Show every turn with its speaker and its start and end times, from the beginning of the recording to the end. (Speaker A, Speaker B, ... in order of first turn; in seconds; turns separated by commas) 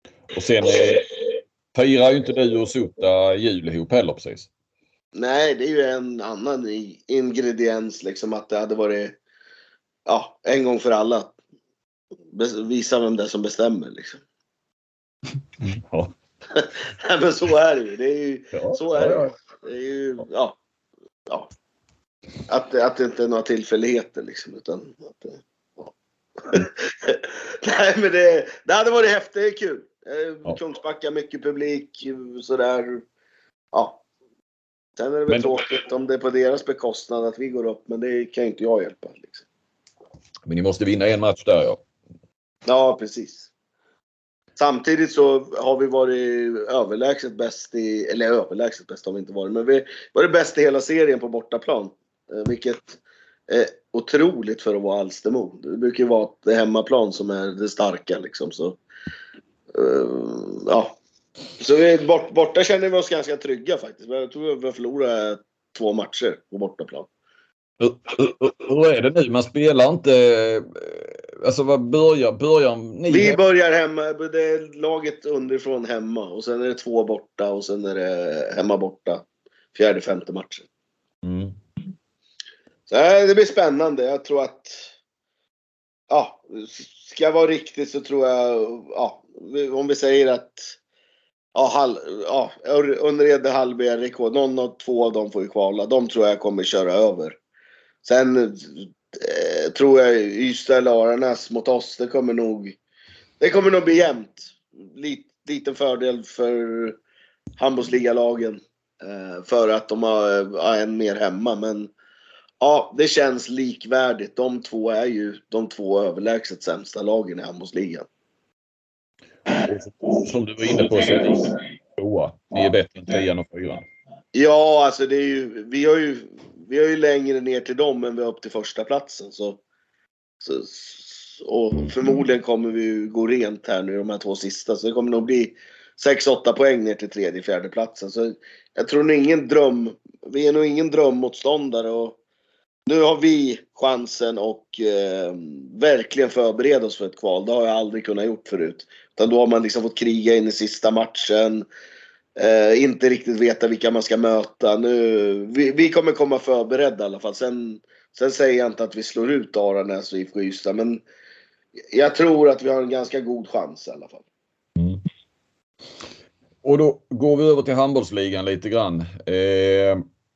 Speaker A: 0.3-4.5, Speaker B: 5.1-9.2, Speaker B: 10.1-11.3, Speaker B: 12.3-14.2, Speaker A: 15.6-16.1, Speaker B: 16.5-20.6, Speaker A: 18.5-19.3, Speaker B: 22.5-25.9, Speaker B: 26.4-33.0, Speaker B: 33.7-34.0, Speaker B: 35.0-39.4, Speaker A: 35.3-35.6, Speaker A: 40.5-41.8, Speaker B: 42.7-43.5, Speaker B: 44.5-58.8, Speaker B: 59.7-61.0, Speaker B: 61.6-67.1, Speaker A: 67.8-73.4, Speaker B: 73.1-80.7, Speaker A: 81.2-81.5, Speaker B: 82.9-84.9, Speaker B: 86.1-90.7, Speaker B: 91.5-97.4, Speaker B: 98.0-102.8, Speaker B: 103.4-107.0, Speaker B: 107.6-111.9, Speaker B: 112.6-118.1, Speaker A: 119.5-123.8, Speaker B: 124.3-129.6, Speaker B: 130.4-142.2, Speaker B: 142.9-151.7, Speaker B: 152.4-161.0, Speaker B: 161.9-164.2, Speaker A: 166.6-170.0